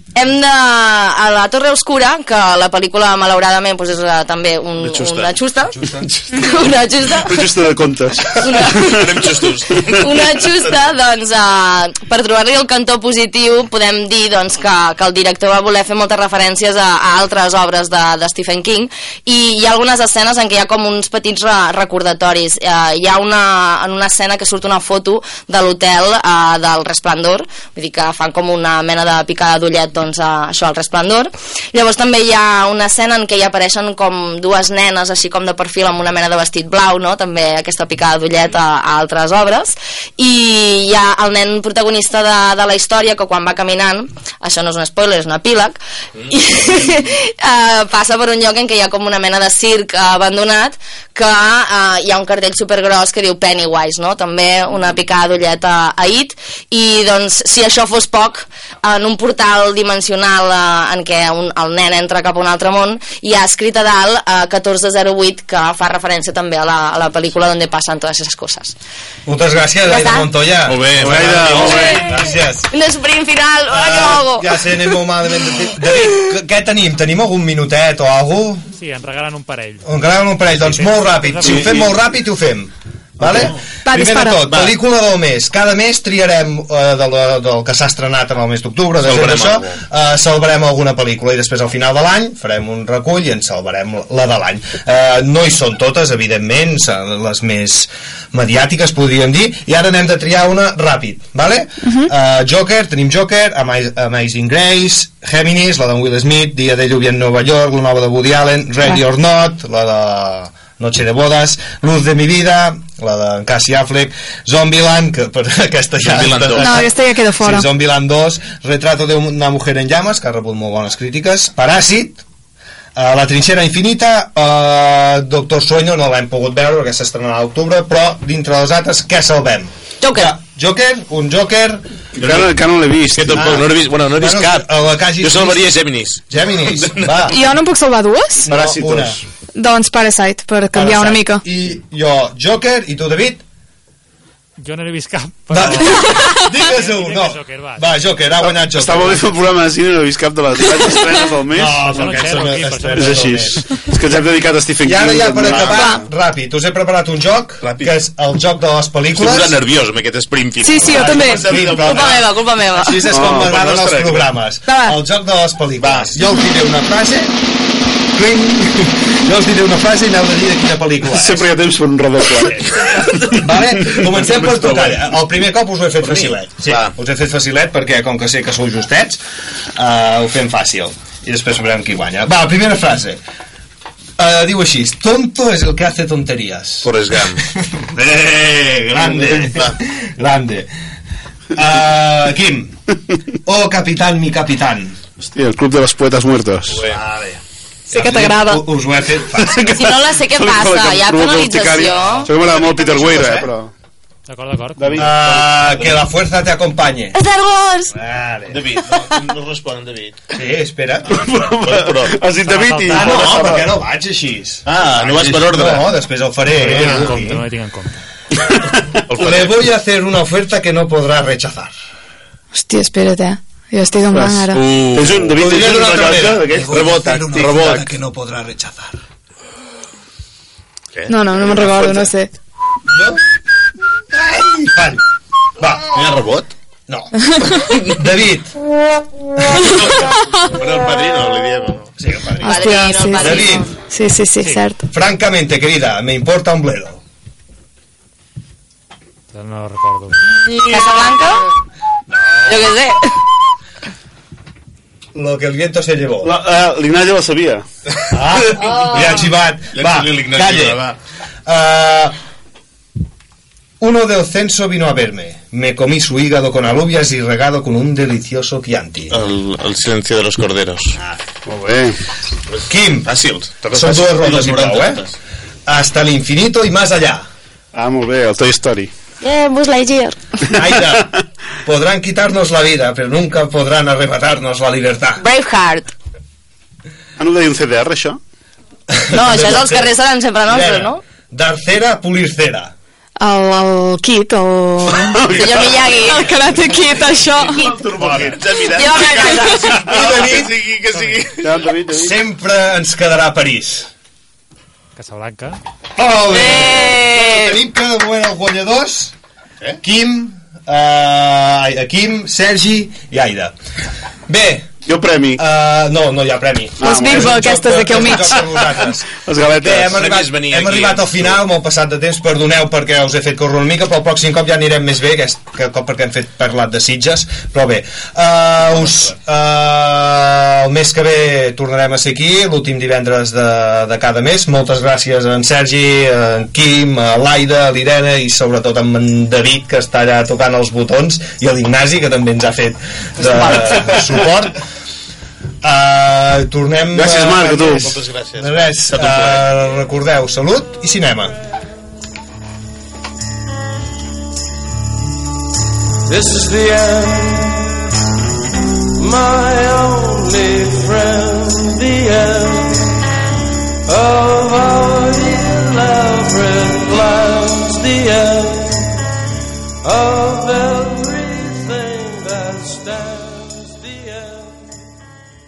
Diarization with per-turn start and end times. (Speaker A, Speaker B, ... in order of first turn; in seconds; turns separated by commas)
Speaker A: 0.1-5.7, Speaker B: 4.8-5.3, Speaker C: 5.7-6.4, Speaker A: 6.3-7.5, Speaker D: 7.2-9.1, Speaker A: 8.4-9.1, Speaker B: 8.8-10.7, Speaker A: 9.9-68.7, Speaker C: 69.2-72.7, Speaker A: 69.9-70.3, Speaker B: 70.7-72.0, Speaker D: 70.9-72.1, Speaker A: 71.6-72.2, Speaker A: 72.7-74.7, Speaker C: 73.7-78.7, Speaker E: 78.7-81.9, Speaker C: 79.8-122.2, Speaker F: 83.8-84.6, Speaker B: 84.5-84.7, Speaker B: 89.0-89.8, Speaker F: 101.8-102.1, Speaker B: 116.0-116.8, Speaker F: 116.6-117.7, Speaker C: 123.0-131.8, Speaker A: 130.0-130.3, Speaker D: 132.2-133.6, Speaker B: 132.2-132.5, Speaker B: 133.1-134.7, Speaker C: 133.3-135.7, Speaker B: 135.2-137.3, Speaker C: 136.3-137.3, Speaker F: 137.3-138.5, Speaker C: 138.5-139.2, Speaker D: 138.5-139.2, Speaker F: 139.5-141.4, Speaker C: 140.7-143.4, Speaker E: 144.6-148.5, Speaker C: 145.5-149.3, Speaker D: 148.8-152.3, Speaker C: 151.5-153.7, Speaker E: 151.6-153.8, Speaker D: 152.9-156.0, Speaker C: 154.8-159.6, Speaker F: 155.7-156.0, Speaker B: 157.6-157.9, Speaker B: 159.1-162.2, Speaker F: 160.6-161.4, Speaker C: 160.9-167.3, Speaker A: 161.7-163.1, Speaker D: 163.1-163.6, Speaker B: 163.2-164.3, Speaker F: 164.7-165.0, Speaker B: 165.8-166.2, Speaker C: 168.1-171.5, Speaker D: 171.1-173.3, Speaker C: 173.3-179.2, Speaker B: 174.1-175.2, Speaker B: 176.0-176.9, Speaker C: 179.7-183.2, Speaker C: 184.2-190.7, Speaker B: 186.8-187.4, Speaker B: 189.3-189.7, Speaker C: 191.5-192.8, Speaker C: 193.4-195.0, Speaker D: 195.2-196.8, Speaker C: 196.8-199.9, Speaker F: 197.9-198.6, Speaker D: 199.4-203.7, Speaker A: 199.8-202.3, Speaker C: 202.2-203.5, Speaker E: 204.3-205.2, Speaker D: 204.8-205.4, Speaker C: 204.9-207.2, Speaker F: 207.2-207.8, Speaker C: 207.9-208.8, Speaker B: 208.5-210.2, Speaker C: 210.3-211.2, Speaker D: 211.1-213.7, Speaker B: 211.6-212.2, Speaker E: 212.4-213.2, Speaker C: 212.9-217.4, Speaker B: 213.1-213.5, Speaker B: 214.7-215.9, Speaker E: 216.4-218.0, Speaker D: 218.7-219.0, Speaker B: 219.1-219.6, Speaker C: 219.1-221.7, Speaker F: 222.5-224.6, Speaker D: 224.1-227.6, Speaker B: 224.5-227.9, Speaker C: 225.3-229.0, Speaker B: 230.9-232.1, Speaker F: 231.1-232.3, Speaker C: 232.9-233.2, Speaker C: 234.1-235.0, Speaker C: 235.6-236.0, Speaker B: 235.9-236.5, Speaker C: 236.9-238.5, Speaker C: 239.4-239.8, Speaker B: 239.6-241.9, Speaker C: 242.0-243.7, Speaker F: 242.4-244.8, Speaker A: 242.4-243.7, Speaker C: 244.9-247.0, Speaker E: 249.3-250.3, Speaker A: 250.4-251.5, Speaker C: 252.1-252.7, Speaker A: 252.4-253.2, Speaker C: 255.1-256.3, Speaker D: 256.2-257.6, Speaker C: 258.1-260.8, Speaker B: 258.1-260.9, Speaker C: 261.4-262.1, Speaker C: 263.8-269.2, Speaker B: 269.1-271.0, Speaker C: 271.0-271.2, Speaker D: 271.4-272.0, Speaker C: 272.7-273.1, Speaker B: 273.0-275.1, Speaker C: 273.7-275.0, Speaker C: 275.7-277.3, Speaker D: 277.7-278.9, Speaker A: 279.2-280.2, Speaker C: 280.5-285.2, Speaker A: 285.2-285.9, Speaker D: 287.2-288.2, Speaker C: 288.9-289.9, Speaker A: 289.1-291.0, Speaker C: 290.4-292.7, Speaker F: 293.2-295.3, Speaker D: 295.1-295.8, Speaker A: 295.3-296.4, Speaker F: 295.9-297.7, Speaker A: 297.5-297.8, Speaker D: 297.6-298.3, Speaker B: 297.8-301.5, Speaker C: 298.0-298.4, Speaker A: 298.6-299.9, Speaker C: 299.8-300.6, Speaker E: 300.9-301.3, Speaker D: 301.4-302.1, Speaker C: 301.9-303.9, Speaker E: 304.9-305.6, Speaker C: 305.9-309.1, Speaker A: 306.3-307.5, Speaker C: 309.8-313.5, Speaker C: 314.3-314.8, Speaker D: 314.8-315.4, Speaker C: 315.4-344.6, Speaker F: 316.8-318.4, Speaker D: 316.8-317.3, Speaker D: 319.1-320.0, Speaker B: 319.9-321.3, Speaker D: 343.3-344.1, Speaker C: 345.6-351.4, Speaker D: 346.9-347.9, Speaker B: 347.7-349.7, Speaker G: 356.1-357.6, Speaker G: 359.0-362.9, Speaker G: 363.9-368.9, Speaker G: 369.8-374.7